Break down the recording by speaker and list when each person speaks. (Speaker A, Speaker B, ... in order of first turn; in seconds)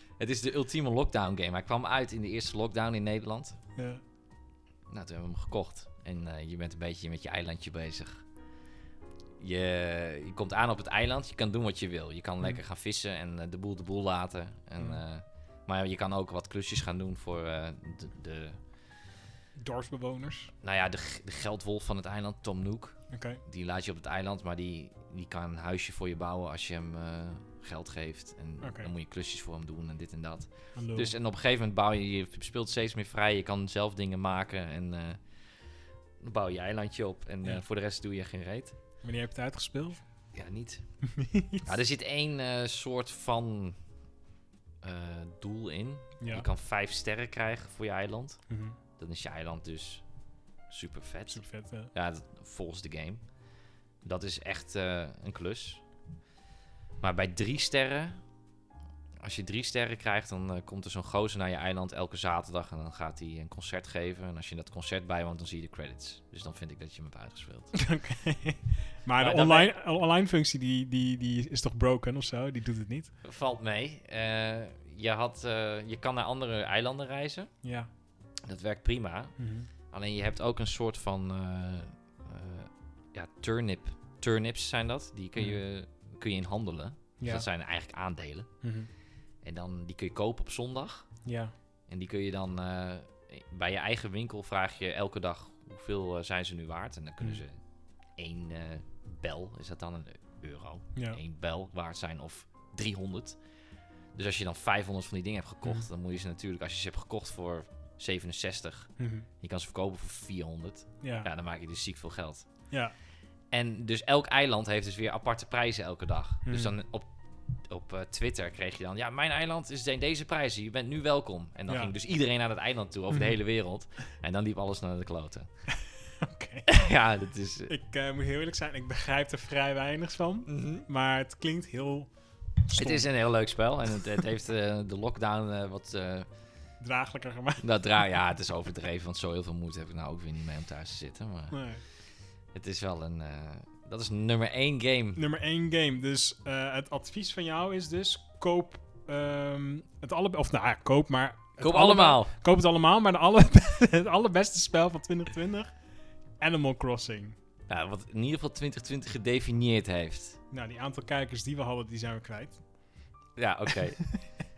Speaker A: 0.2-3.6, 4.9-8.2, 9.4-18.6, 20.6-35.2, 36.2-38.8, 40.3-40.8, 41.7-43.8, 44.8-48.4, 49.0-50.0, 50.7-53.2, 54.0-55.8, 57.0-58.2, 59.2-67.7, 69.2-69.7, 73.2-77.5, 78.5-79.4, 79.9-88.5, 89.4-91.1, 91.9-97.6, 98.2-103.4, 104.2-112.5, 113.5-125.5, 126.7-127.7, 130.5-130.8, 132.8-136.3, 137.6-141.6, 142.5-145.2, 151.6-152.3, 157.7-160.4, 163.4-164.0
Speaker B: 3.8-4.0, 19.6-20.5, 23.1-23.4, 28.6-28.9, 30.8-31.1, 39.0-40.0, 41.0-41.7, 46.2-46.5, 48.5-48.8, 51.3-51.9, 67.7-73.1, 77.6-77.9, 79.4-79.7, 87.2-87.5, 88.6-88.9, 91.2-91.5, 109.0-109.3, 111.0-111.3, 116.5-116.7, 121.7-121.9, 123.1-123.4, 125.7-126.7, 127.7-132.1, 132.6-133.1, 136.8-137.7, 141.5-141.8, 145.2-155.7, 156.4-157.4, 160.5-162.6, 163.8-164.4